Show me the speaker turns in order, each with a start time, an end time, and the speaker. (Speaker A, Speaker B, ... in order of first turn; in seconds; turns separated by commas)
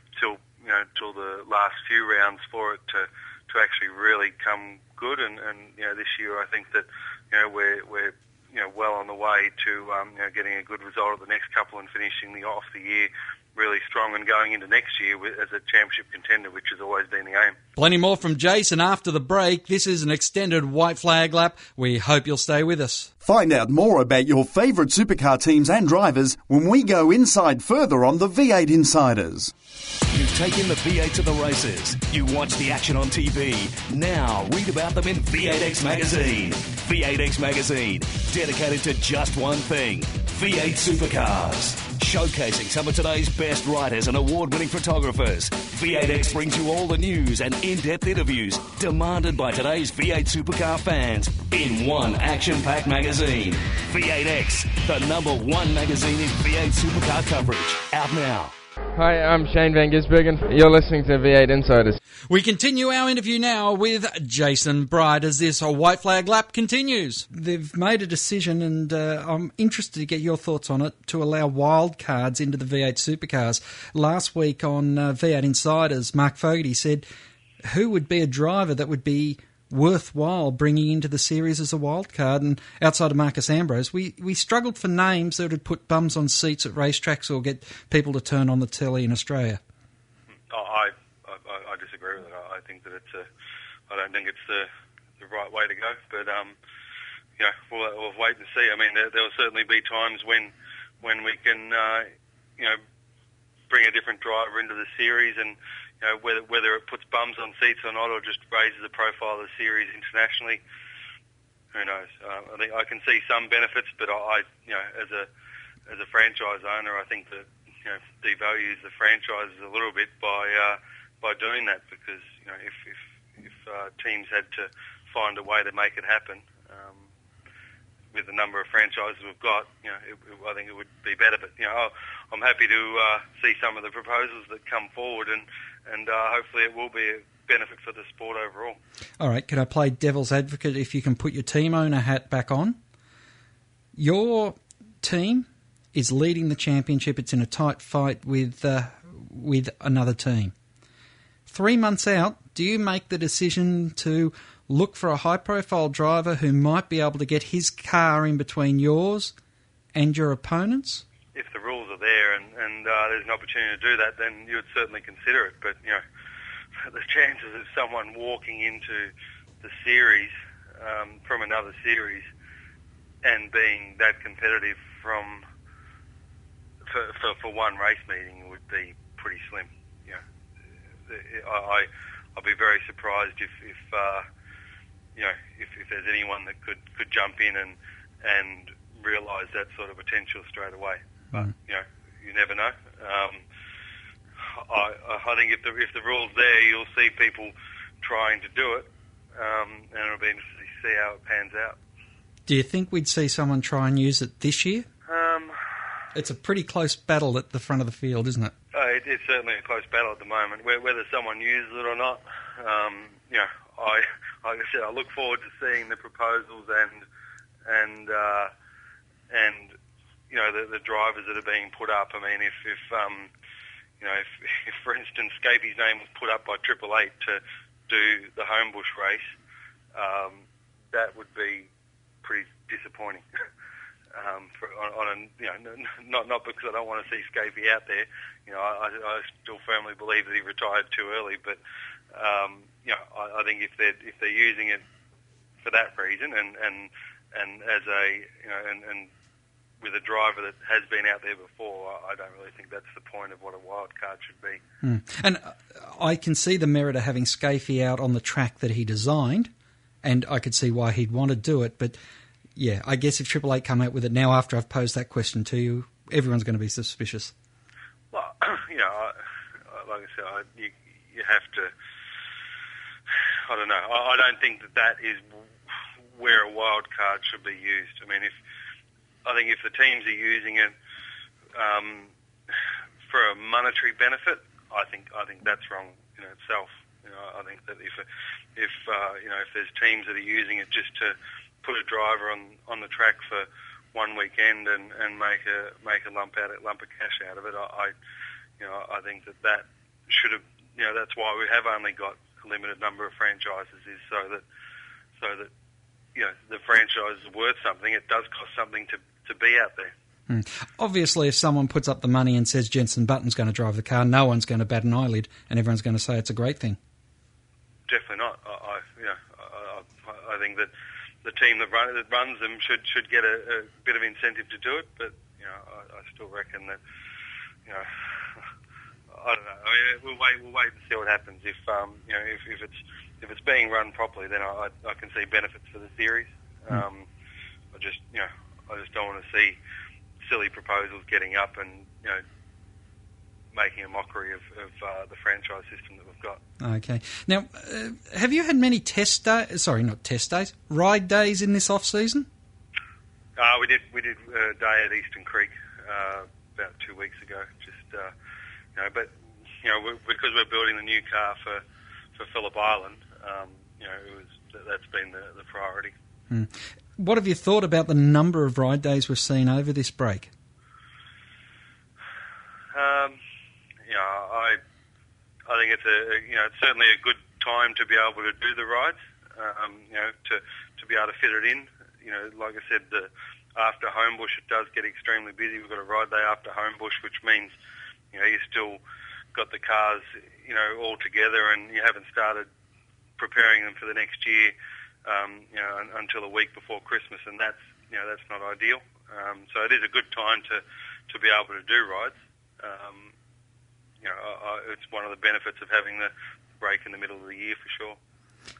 Speaker A: 0.1-17.6, Speaker B: 17.8-23.1, Speaker C: 23.2-29.5, Speaker D: 30.1-58.5, Speaker E: 59.0-62.0, Speaker B: 62.3-77.0, Speaker B: 77.6-89.6, Speaker A: 90.5-93.3, Speaker A: 93.9-94.7, Speaker A: 95.2-96.5, Speaker A: 97.4-102.8, Speaker A: 103.7-110.6, Speaker A: 111.7-115.3, Speaker A: 115.9-127.1, Speaker A: 128.1-138.8, Speaker B: 139.2-142.8, Speaker B: 143.9-150.5, Speaker B: 151.5-159.3, Speaker B: 159.9-161.0, Speaker A: 161.3-166.0, Speaker A: 166.8-172.3, Speaker A: 173.2-175.4, Speaker A: 176.9-180.2, Speaker A: 181.1-184.2, Speaker A: 185.1-193.4, Speaker A: 194.6-201.8, Speaker B: 202.5-204.9, Speaker A: 205.1-205.5, Speaker B: 206.1-208.5, Speaker A: 208.7-217.0, Speaker A: 217.7-218.5, Speaker A: 219.3-219.7, Speaker A: 220.3-223.3, Speaker A: 224.0-229.3, Speaker A: 229.9-231.7, Speaker A: 232.2-233.2, Speaker A: 234.1-241.6, Speaker A: 242.1-244.8, Speaker A: 245.6-249.1, Speaker A: 249.8-254.6, Speaker B: 254.8-259.5, Speaker B: 260.0-262.0, Speaker B: 262.6-267.3, Speaker A: 268.1-269.1, Speaker A: 269.7-271.7, Speaker A: 273.5-275.2, Speaker A: 276.1-278.3, Speaker A: 279.2-280.7, Speaker A: 281.6-282.1, Speaker A: 283.1-288.0, Speaker A: 288.6-297.9, Speaker A: 298.6-304.4, Speaker A: 305.2-305.5, Speaker A: 306.1-309.9, Speaker B: 310.3-316.8, Speaker A: 317.9-320.7, Speaker A: 321.2-326.8, Speaker A: 329.1-337.1, Speaker A: 337.7-339.6, Speaker A: 340.2-342.2, Speaker A: 343.5-346.4, Speaker B: 346.6-352.3, Speaker A: 353.4-358.1, Speaker A: 358.8-359.1, Speaker A: 359.6-361.6, Speaker A: 362.1-365.9, Speaker B: 366.3-370.3, Speaker A: 372.7-373.2, Speaker A: 373.9-374.6, Speaker A: 375.5-387.5, Speaker A: 388.1-388.8, Speaker A: 389.3-392.5, Speaker A: 393.2-394.5, Speaker A: 395.1-403.1, Speaker A: 404.0-408.0